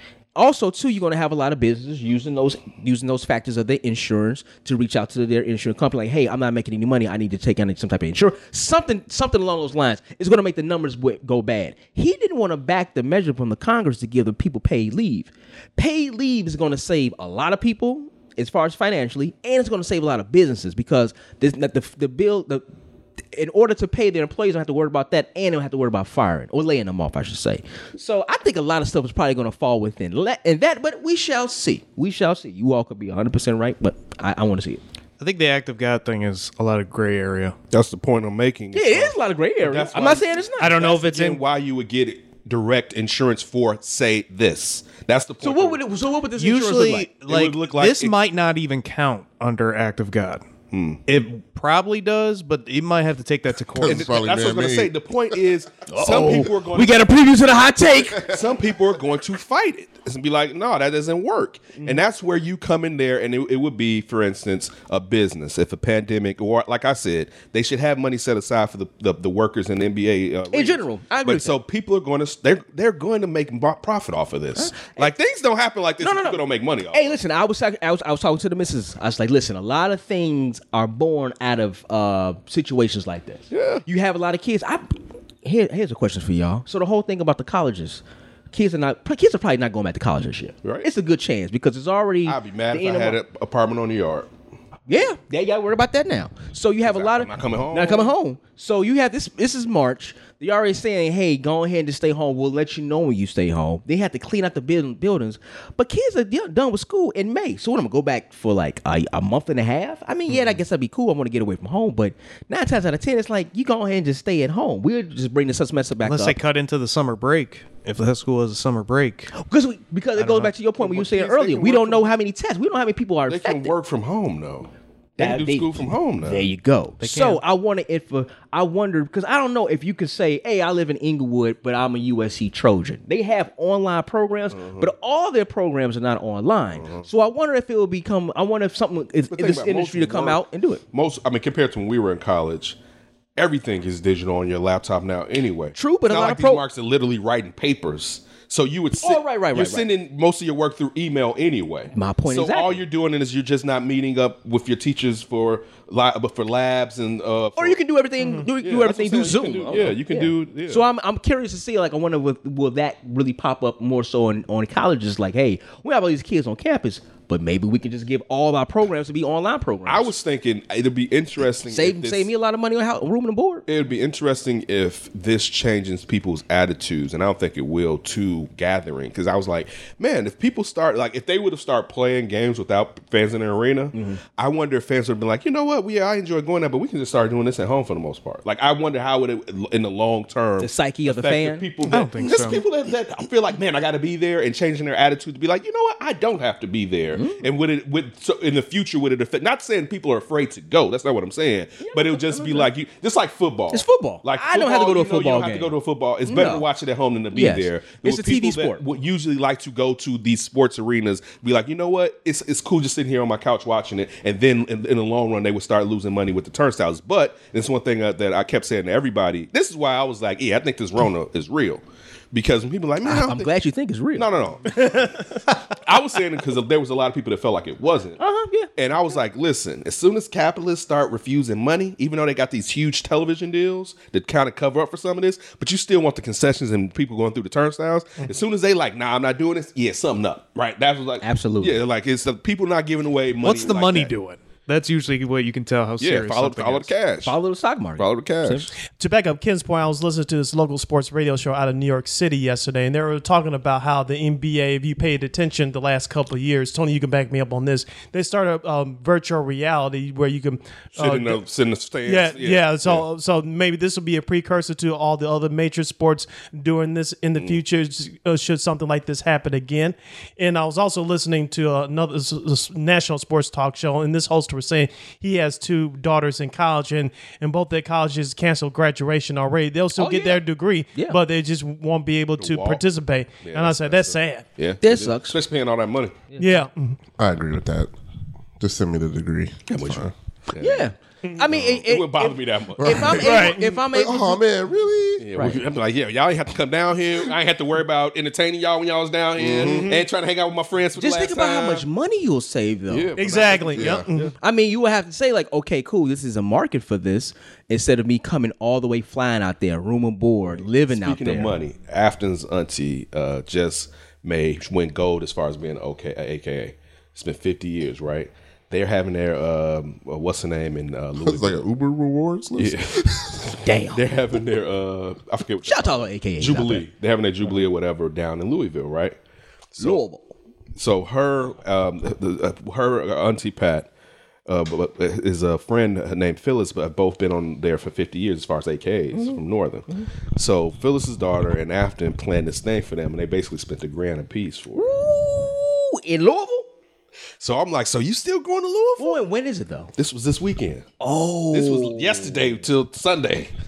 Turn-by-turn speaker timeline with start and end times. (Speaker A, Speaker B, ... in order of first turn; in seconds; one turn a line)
Speaker A: 0.3-22.6
Speaker A: 23.3-34.8
Speaker B: 35.2-37.5
Speaker C: 37.7-45.8
Speaker A: 38.7-40.8
Speaker B: 40.6-41.4
Speaker A: 45.4-47.1
Speaker B: 46.4-50.4
Speaker C: 47.2-48.1
Speaker C: 50.7-51.0
Speaker B: 51.1-54.1
Speaker D: 53.7-54.9
Speaker C: 53.8-57.0
Speaker A: 55.9-58.4
Speaker C: 58.3-77.2
Speaker A: 70.5-71.6
Speaker A: 74.5-75.1
Speaker A: 76.0-93.2
Speaker C: 83.5-83.8
Speaker C: 92.2-94.3
Speaker A: 94.9-116.4
Speaker C: 96.8-98.1
Speaker B: 116.0-119.3
Speaker A: 119.3-123.7
Speaker B: 120.2-120.5
Speaker C: 120.8-122.1
Speaker C: 123.3-126.5
Speaker A: 125.2-140.8
Speaker B: 127.0-127.4
Speaker C: 134.5-134.9
Speaker C: 136.8-137.1
Speaker C: 139.3-142.8
Speaker C: 143.4-157.8
Speaker A: 145.7-146.7
Speaker A: 149.0-149.9
Speaker A: 151.9-152.8
Speaker A: 157.6-170.1
Speaker E: 158.2-158.5
Speaker C: 158.6-160.9
Speaker C: 169.9-172.3
Speaker A: 171.6-173.6
Speaker C: 173.7-223.5
Speaker A: 183.9-184.2
Speaker A: 190.6-191.7
Speaker B: 191.8-192.6
Speaker A: 197.1-197.5
Speaker A: 201.8-202.7
Speaker A: 203.7-206.7
Speaker A: 207.3-208.8
Speaker A: 223.0-224.3
Speaker C: 224.1-228.2
Speaker A: 228.2-228.7
Speaker C: 228.8-244.1
Speaker A: 241.2-241.8
Speaker B: 243.4-246.9
Speaker C: 246.0-247.4
Speaker A: 247.2-248.7
Speaker C: 248.0-248.7
Speaker E: 248.9-261.4
Speaker C: 261.0-263.1
Speaker E: 262.1-284.5
Speaker A: 280.0-280.4
Speaker A: 280.9-281.2
Speaker C: 282.4-282.9
Speaker C: 283.4-286.3
Speaker A: 284.8-285.4
Speaker A: 286.3-286.6
Speaker E: 286.4-287.0
Speaker D: 287.2-287.9
Speaker D: 288.6-290.1
Speaker C: 289.7-290.9
Speaker A: 290.6-294.4
Speaker E: 291.3-291.5
Speaker C: 291.6-293.2
Speaker D: 292.8-293.3
Speaker E: 293.2-293.8
Speaker D: 293.9-295.3
Speaker C: 295.2-301.9
Speaker A: 295.4-295.6
Speaker D: 299.4-299.9
Speaker E: 299.6-300.1
Speaker A: 301.0-303.2
Speaker C: 302.9-304.4
Speaker E: 303.2-304.3
Speaker D: 303.8-304.1
Speaker A: 304.4-311.6
Speaker C: 310.5-321.6
Speaker D: 321.2-323.5
Speaker C: 322.6-329.2
Speaker A: 323.6-324.1
Speaker A: 325.6-326.9
Speaker C: 329.8-330.0
Speaker A: 329.8-330.3
Speaker C: 330.8-333.9
Speaker C: 334.5-344.9
Speaker A: 339.1-340.1
Speaker A: 344.8-346.7
Speaker C: 347.4-349.2
Speaker A: 349.0-349.9
Speaker C: 350.0-350.9
Speaker A: 351.0-352.4
Speaker C: 351.5-353.5